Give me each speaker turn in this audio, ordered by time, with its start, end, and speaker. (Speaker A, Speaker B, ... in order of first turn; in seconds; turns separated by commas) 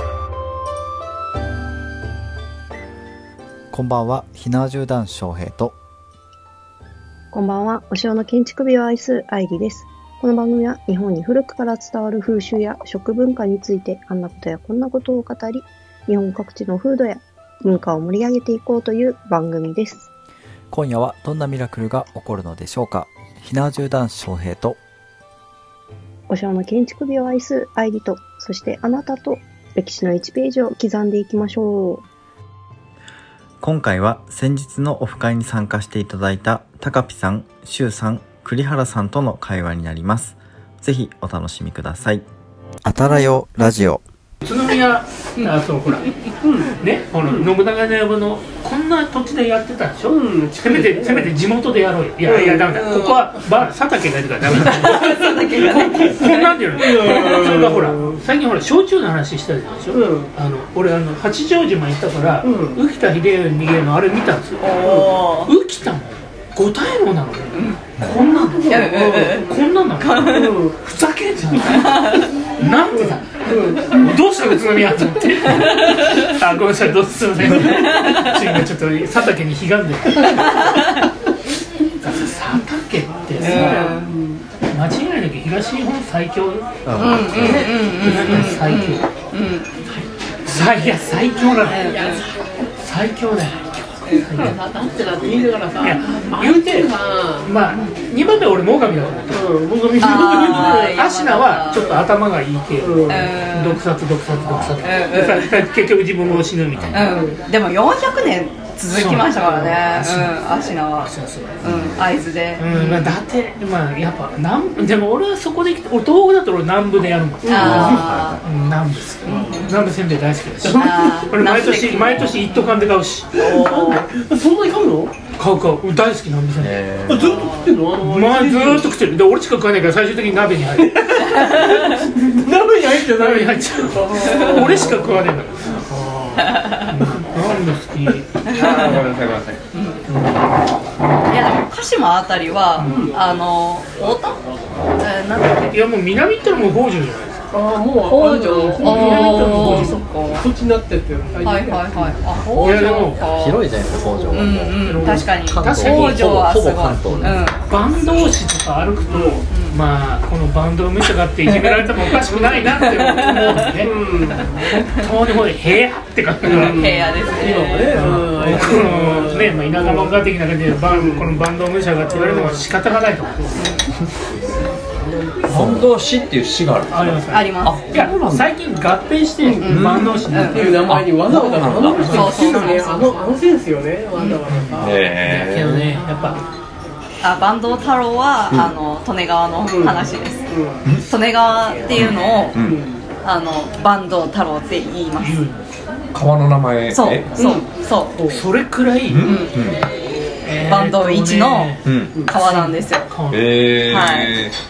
Speaker A: 3.7-5.8, Speaker B: 7.3-20.1, Speaker A: 20.7-24.8, Speaker B: 26.3-32.0, Speaker C: 33.6-42.2, Speaker A: 42.8-44.0, Speaker D: 44.4-46.1, Speaker E: 46.4-46.7, Speaker D: 46.8-64.8, Speaker E: 47.2-47.5, Speaker E: 50.1-51.3, Speaker E: 52.3-52.7, Speaker F: 52.7-53.4, Speaker F: 54.5-56.4, Speaker E: 54.9-56.1, Speaker E: 56.7-58.2, Speaker F: 57.0-57.3, Speaker E: 59.9-60.3, Speaker E: 62.4-62.8, Speaker F: 64.6-65.5, Speaker E: 64.8-65.1, Speaker D: 65.4-80.5, Speaker F: 67.5-67.9, Speaker E: 68.0-69.4, Speaker F: 68.7-70.6, Speaker E: 70.3-70.8, Speaker F: 71.8-72.3, Speaker E: 72.9-74.2, Speaker F: 75.5-76.2, Speaker E: 77.5-77.8, Speaker F: 77.7-78.5, Speaker F: 80.4-81.1, Speaker D: 82.0-84.0, Speaker E: 83.4-84.4, Speaker F: 83.4-84.2, Speaker D: 84.7-86.7, Speaker C: 86.8-87.8, Speaker F: 87.0-89.8, Speaker D: 87.4-89.1, Speaker E: 87.4-88.5, Speaker D: 90.5-92.2, Speaker F: 91.7-92.2, Speaker E: 91.8-92.2, Speaker D: 92.8-94.6, Speaker F: 94.0-94.6, Speaker E: 94.4-97.5, Speaker D: 95.8-96.9, Speaker D: 97.4-99.6, Speaker E: 99.3-101.0, Speaker F: 100.0-102.0, Speaker D: 100.7-107.1, Speaker E: 102.8-103.3, Speaker F: 103.1-103.8, Speaker F: 104.8-105.6, Speaker F: 106.9-113.2, Speaker E: 107.0-107.4, Speaker D: 108.9-110.3, Speaker D: 111.0-111.6, Speaker C: 111.6-112.0, Speaker D: 112.6-123.3, Speaker E: 117.4-118.0, Speaker F: 117.5-118.4, Speaker C: 117.5-118.4, Speaker E: 119.3-119.6, Speaker F: 119.3-119.7, Speaker E: 120.6-121.2, Speaker F: 120.7-124.0, Speaker E: 123.3-125.1, Speaker D: 125.4-126.8, Speaker C: 126.6-127.5, Speaker E: 127.1-128.9, Speaker F: 127.2-127.7, Speaker D: 128.0-131.6, Speaker E: 130.8-135.2, Speaker D: 133.1-138.3, Speaker F: 134.3-134.8, Speaker F: 136.4-136.9, Speaker F: 138.5-139.0, Speaker G: 138.5-139.6, Speaker F: 139.7-140.0, Speaker D: 140.1-140.4, Speaker F: 141.3-144.4, Speaker E: 142.8-143.1, Speaker F: 145.0-145.8, Speaker D: 145.7-147.4, Speaker E: 147.5-153.1, Speaker F: 148.1-150.5, Speaker D: 148.8-150.0, Speaker F: 151.4-153.6, Speaker D: 152.5-153.2, Speaker C: 153.2-157.4, Speaker F: 154.3-157.6, Speaker D: 154.8-156.4, Speaker D: 157.1-166.9, Speaker E: 159.1-159.4, Speaker F: 159.5-159.8, Speaker F: 163.0-163.6, Speaker E: 163.8-164.7, Speaker F: 166.5-168.8, Speaker E: 166.5-170.2, Speaker D: 167.4-173.6, Speaker E: 170.9-171.4, Speaker E: 172.1-172.6, Speaker F: 173.6-173.9, Speaker E: 175.0-175.5, Speaker D: 175.5-175.8, Speaker G: 175.5-178.5, Speaker D: 176.9-181.0, Speaker F: 177.3-177.8, Speaker E: 179.4-179.8, Speaker F: 179.6-183.3, Speaker G: 179.7-180.3, Speaker E: 180.5-185.0, Speaker G: 180.8-182.3, Speaker D: 182.0-182.8, Speaker F: 184.2-184.4, Speaker D: 184.5-186.4, Speaker G: 184.8-186.0, Speaker F: 187.2-192.6, Speaker E: 189.6-190.9, Speaker G: 192.0-192.8, Speaker E: 192.6-193.0, Speaker F: 193.2-195.4, Speaker D: 195.2-195.7, Speaker G: 196.1-197.3, Speaker F: 196.9-198.2, Speaker E: 197.3-198.4, Speaker D: 198.3-199.3, Speaker G: 199.1-199.8, Speaker F: 199.2-199.6, Speaker D: 200.4-203.8, Speaker F: 200.7-203.1, Speaker G: 201.8-202.1, Speaker G: 203.3-204.5, Speaker F: 203.9-204.4